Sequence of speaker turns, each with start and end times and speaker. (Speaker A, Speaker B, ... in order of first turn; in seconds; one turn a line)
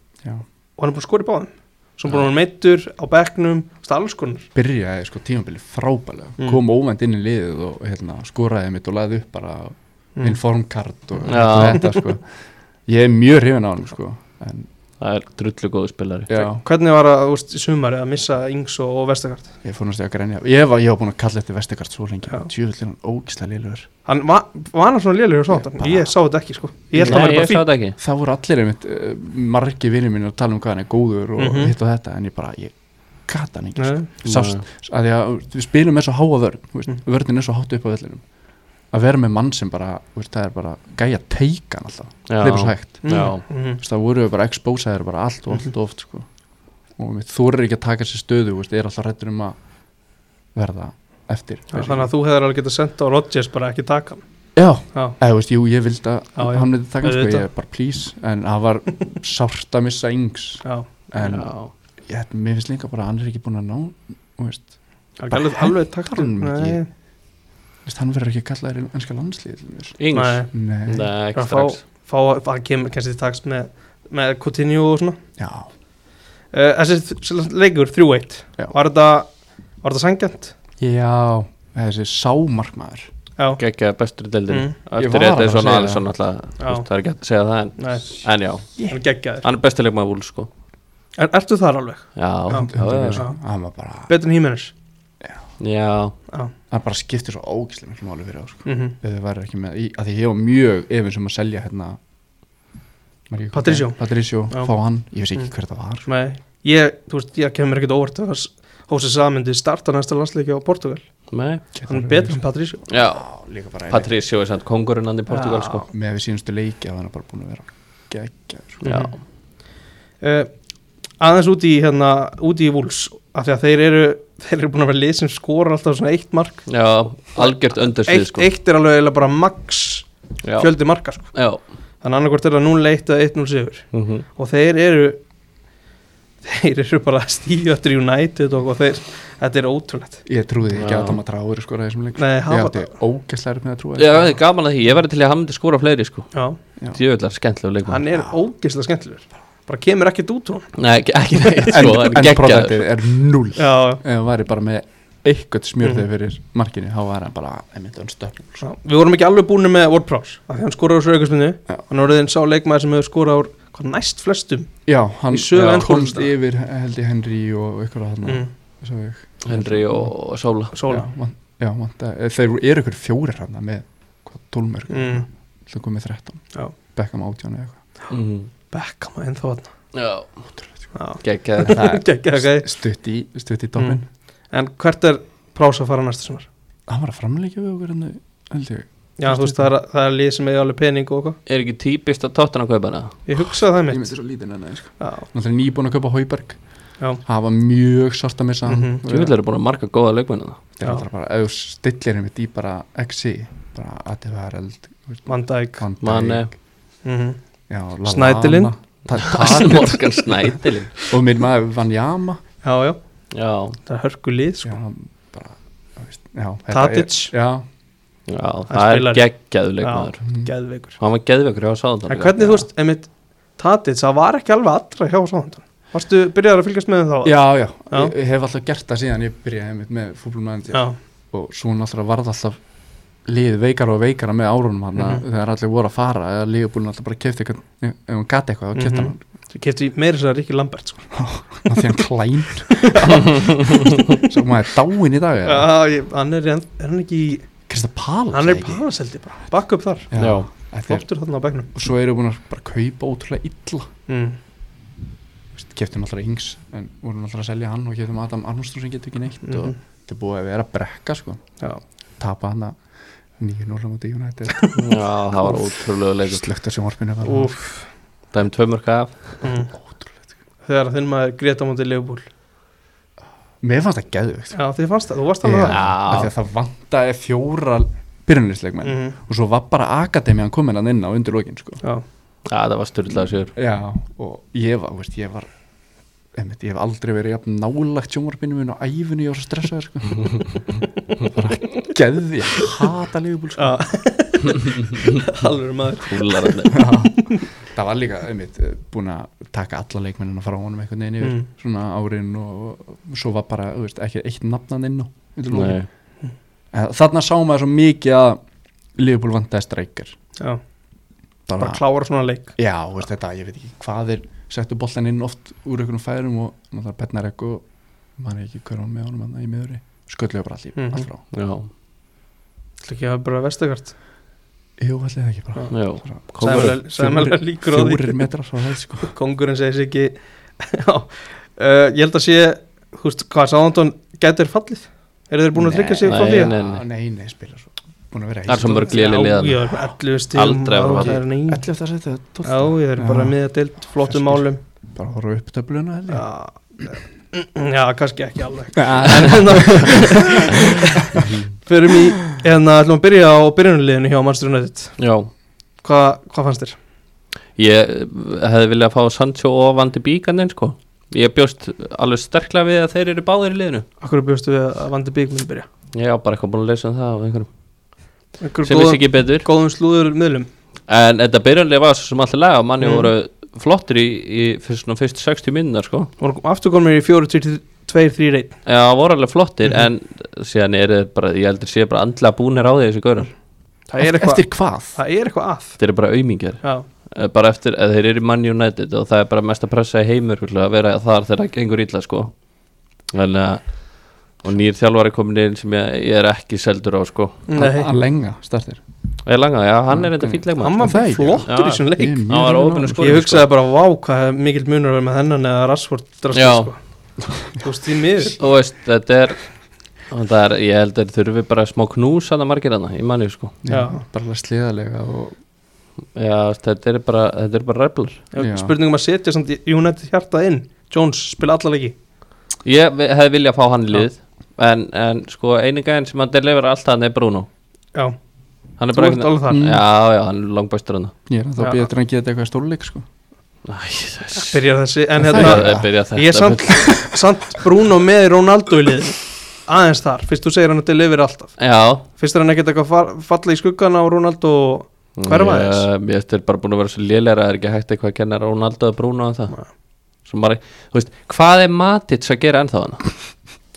Speaker A: 0.8-4.5
Speaker B: 4.5-12.2
Speaker C: 11.3-11.9
Speaker B: 12.9-14.7
Speaker C: 15.0-16.4
Speaker B: 16.3-16.6
Speaker A: 16.6-19.5
Speaker B: 19.6-23.9
Speaker A: 24.1-27.6
Speaker B: 25.5-26.1
Speaker B: 27.0-27.3
Speaker C: 27.0-28.0
Speaker B: 28.0-32.7
Speaker A: 31.4-31.7
Speaker B: 33.3-38.2
Speaker A: 33.8-34.1
Speaker C: 34.2-34.6
Speaker B: 38.9-46.3
Speaker C: 42.3-43.4
Speaker A: 43.0-43.8
Speaker B: 47.0-49.6
Speaker B: 50.5-52.1
Speaker A: 51.7-54.2
Speaker B: 54.6-61.5
Speaker A: 56.4-57.5
Speaker C: 61.2-61.7
Speaker B: 62.1-64.7
Speaker A: 65.2-66.9
Speaker B: 65.3-66.8
Speaker B: 67.9-70.0
Speaker C: 70.0-71.8
Speaker A: 70.1-70.5
Speaker B: 70.5-71.1
Speaker A: 71.3-75.2
Speaker B: 75.4-75.7
Speaker A: 76.5-79.3
Speaker A: 79.8-80.5
Speaker B: 80.8-83.1
Speaker C: 83.6-88.8
Speaker A: 84.5-84.8
Speaker B: 85.0-86.0
Speaker A: 86.6-86.9
Speaker A: 87.8-88.1
Speaker A: 88.9-89.5
Speaker C: 89.4-90.5
Speaker A: 91.2-93.4
Speaker C: 92.2-93.2
Speaker B: 92.5-94.1
Speaker A: 94.1-94.7
Speaker C: 95.6-96.2
Speaker B: 96.7-102.0
Speaker A: 98.7-99.0
Speaker B: 103.3-106.1
Speaker A: 103.5-104.0
Speaker A: 106.0-111.0
Speaker C: 111.3-111.6
Speaker B: 111.7-114.1
Speaker A: 111.9-112.8
Speaker C: 112.9-113.3
Speaker C: 113.9-115.9
Speaker A: 115.3-115.9
Speaker B: 115.9-118.9
Speaker C: 118.8-119.1
Speaker A: 118.9-119.1
Speaker A: 120.2-120.5
Speaker A: 121.2-126.7
Speaker C: 126.7-128.5
Speaker A: 127.3-131.3
Speaker C: 130.4-130.7
Speaker C: 131.3-131.6
Speaker A: 132.0-135.2
Speaker C: 133.9-134.3
Speaker A: 136.4-140.2
Speaker B: 140.3-144.4
Speaker C: 140.7-141.2
Speaker A: 142.2-142.9
Speaker C: 144.0-146.3
Speaker C: 146.9-148.0
Speaker A: 147.9-150.7
Speaker B: 148.1-148.3
Speaker C: 150.8-152.9
Speaker A: 151.5-151.7
Speaker B: 151.6-158.6
Speaker A: 153.6-154.0
Speaker A: 158.6-164.7
Speaker B: 164.9-170.1
Speaker A: 165.3-166.3
Speaker C: 165.6-165.8
Speaker C: 169.4-170.8
Speaker A: 170.7-171.1
Speaker B: 170.9-177.8
Speaker A: 174.9-175.3
Speaker C: 178.1-178.5
Speaker A: 178.7-179.7
Speaker C: 179.9-180.3
Speaker A: 180.9-182.7
Speaker C: 181.2-181.9
Speaker B: 181.6-184.1
Speaker A: 184.5-186.5
Speaker B: 186.9-189.7
Speaker A: 189.2-191.4
Speaker C: 191.5-193.2
Speaker A: 193.3-194.2
Speaker B: 193.4-196.6
Speaker A: 195.0-195.3
Speaker B: 197.2-199.3
Speaker A: 198.7-199.0
Speaker C: 199.0-200.6
Speaker B: 200.8-205.3
Speaker A: 205.3-205.8
Speaker B: 205.8-206.6
Speaker C: 206.0-206.5
Speaker A: 207.0-207.4
Speaker B: 207.7-210.1
Speaker A: 208.1-208.7
Speaker C: 209.1-211.1
Speaker B: 211.1-212.4
Speaker A: 212.6-213.0
Speaker C: 213.3-213.8
Speaker A: 213.9-214.8
Speaker B: 214.6-217.7
Speaker A: 216.7-217.3
Speaker C: 218.3-220.2
Speaker A: 218.7-219.3
Speaker A: 219.8-221.0
Speaker B: 220.3-220.5
Speaker C: 221.0-222.6
Speaker A: 222.1-227.4
Speaker B: 227.2-232.6
Speaker B: 233.2-239.2
Speaker A: 235.0-235.2
Speaker A: 238.8-241.1
Speaker B: 241.1-245.7
Speaker A: 241.7-241.9
Speaker A: 242.7-244.2
Speaker C: 243.3-243.7
Speaker A: 245.4-247.5
Speaker B: 247.7-248.8
Speaker A: 248.3-250.1
Speaker B: 250.1-251.1
Speaker C: 250.2-250.5
Speaker A: 250.9-251.7
Speaker B: 251.7-253.9
Speaker A: 254.1-254.4
Speaker B: 255.6-261.4
Speaker A: 259.4-259.8
Speaker B: 262.2-262.8
Speaker B: 263.4-264.7
Speaker C: 264.7-266.4
Speaker B: 266.2-267.5
Speaker A: 267.2-267.9
Speaker C: 268.3-269.4
Speaker A: 269.4-269.7
Speaker A: 270.6-272.3
Speaker B: 273.6-274.6
Speaker A: 274.6-275.8
Speaker B: 275.4-281.8
Speaker C: 275.7-276.3
Speaker A: 278.8-279.2
Speaker C: 282.5-283.5
Speaker B: 283.6-285.5
Speaker B: 286.4-293.8
Speaker A: 293.6-297.5
Speaker C: 294.9-295.2
Speaker C: 296.0-296.9
Speaker B: 296.7-305.8
Speaker A: 301.2-301.5
Speaker C: 305.5-305.9
Speaker B: 306.7-308.4
Speaker B: 309.0-310.1
Speaker B: 311.5-311.8
Speaker A: 311.6-312.5
Speaker B: 312.6-317.6
Speaker B: 318.2-321.2
Speaker A: 320.8-321.1
Speaker C: 321.3-321.7
Speaker A: 322.8-323.9
Speaker B: 324.8-329.1
Speaker C: 325.7-326.8
Speaker A: 326.4-328.3
Speaker A: 329.0-336.5
Speaker B: 335.6-339.0
Speaker C: 336.0-336.9
Speaker C: 338.5-339.7
Speaker A: 338.9-341.6
Speaker C: 340.3-341.2
Speaker B: 341.0-346.3
Speaker A: 342.4-344.6
Speaker A: 346.1-355.0
Speaker B: 348.8-351.3
Speaker C: 351.1-351.5
Speaker C: 355.0-355.3
Speaker A: 355.8-356.8
Speaker C: 357.6-363.9
Speaker A: 364.0-365.7
Speaker C: 365.9-367.5
Speaker A: 368.4-370.5
Speaker C: 368.6-369.5
Speaker C: 370.9-376.1
Speaker A: 372.8-373.1
Speaker A: 376.2-378.6
Speaker C: 378.7-383.3
Speaker A: 383.9-385.8
Speaker B: 384.0-385.0
Speaker C: 385.8-392.3
Speaker C: 393.1-393.8
Speaker C: 394.4-397.5
Speaker A: 397.5-397.9
Speaker B: 397.6-398.8
Speaker C: 399.3-400.9
Speaker B: 399.9-403.2
Speaker A: 400.6-402.2
Speaker C: 401.4-403.5
Speaker A: 403.0-406.8
Speaker C: 406.3-406.7
Speaker A: 407.6-408.4
Speaker C: 408.4-409.5
Speaker C: 410.0-413.6
Speaker B: 413.6-415.4
Speaker A: 413.7-414.0
Speaker C: 416.1-418.2
Speaker A: 418.3-421.9
Speaker B: 418.4-418.7
Speaker C: 422.6-427.5
Speaker C: 428.8-431.1
Speaker A: 428.9-429.7
Speaker B: 429.5-429.8
Speaker B: 431.3-433.1
Speaker A: 431.6-431.9
Speaker C: 433.6-434.6
Speaker A: 434.3-445.9
Speaker B: 435.2-435.9
Speaker C: 435.2-436.8
Speaker B: 436.7-437.2
Speaker C: 441.6-442.0
Speaker C: 445.2-449.6
Speaker C: 450.2-453.1